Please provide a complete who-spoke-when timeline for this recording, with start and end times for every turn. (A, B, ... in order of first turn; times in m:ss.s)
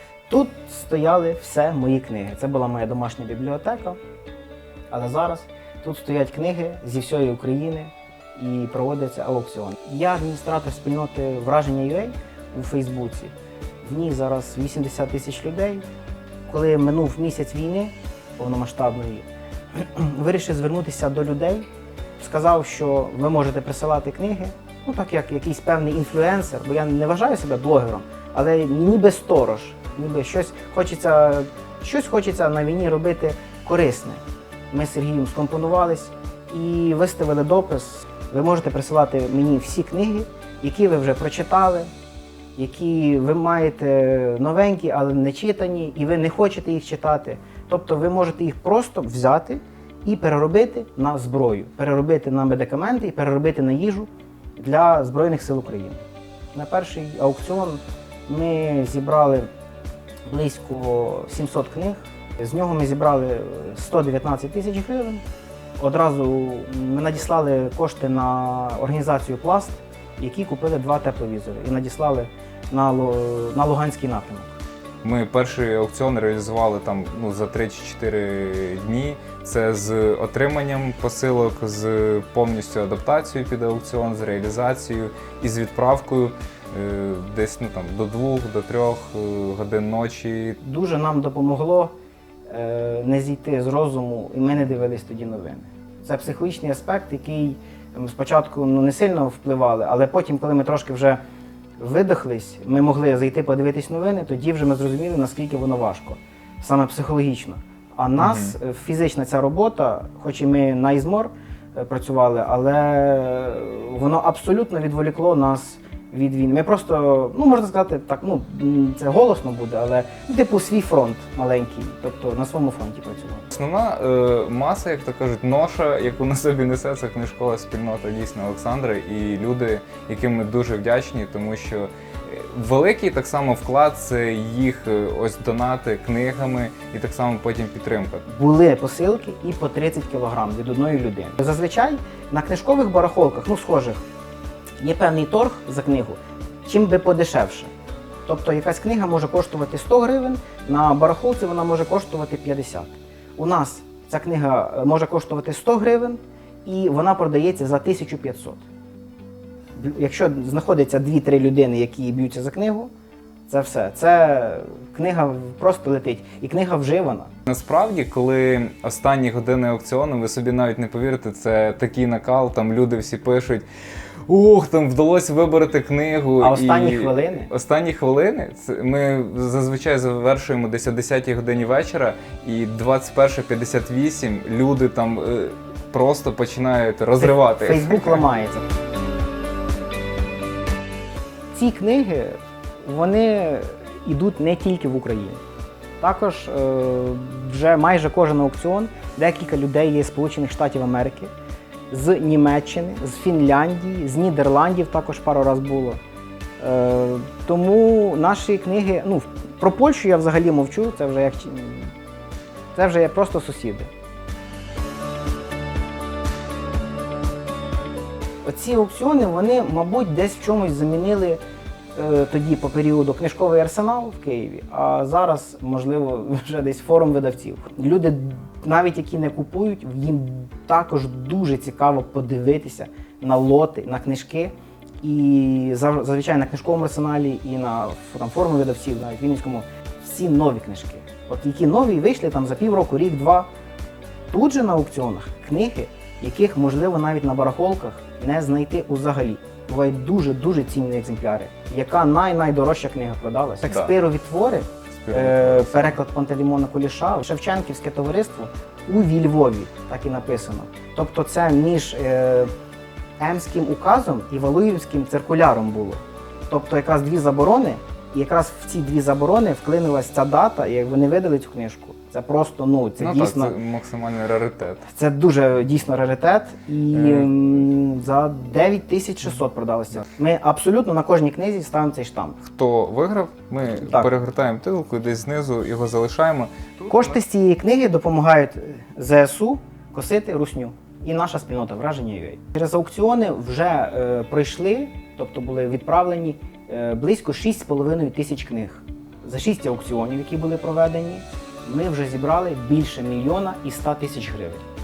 0:00.3-0:04.0 A
0:04.9-0:13.3 A
0:13.8-0:15.8 A
0:16.5-0:21.7 A
0:22.2-0:41.9 A
0:42.6-0:56.0 A
0:56.5-0:59.5 A
1:00.3-1:05.2 A
1:05.8-1:14.6 A
1:15.0-1:30.6 B
1:30.6-1:32.0 A
1:32.5-1:41.2 A
1:41.8-2:03.5 A
1:48.2-1:48.5 B
2:03.5-2:18.2 B
2:18.3-2:24.0 A
2:24.8-2:27.7 A
2:28.3-2:38.6 A
2:39.8-2:42.9 A
2:43.5-2:47.3 A
2:47.5-2:53.7 B
2:54.3-3:08.2 B
2:56.4-2:57.5 A
3:07.2-3:08.6 A
3:11.5-3:15.4 A
3:16.0-3:21.3 A
3:21.9-3:26.0 A
3:26.6-3:31.9 A
3:32.8-3:33.9 A
3:38.4-3:41.4 A
3:42.0-4:03.5 A
4:04.3-4:22.5 A
4:13.6-4:13.9 B
4:14.9-4:16.0 B
4:23.2-4:33.6 A
4:33.0-4:34.8 B
4:34.9-4:42.4 A
4:36.9-4:37.3 B
4:42.4-4:47.2 B
4:43.6-4:44.1 A
4:46.9-5:04.6 A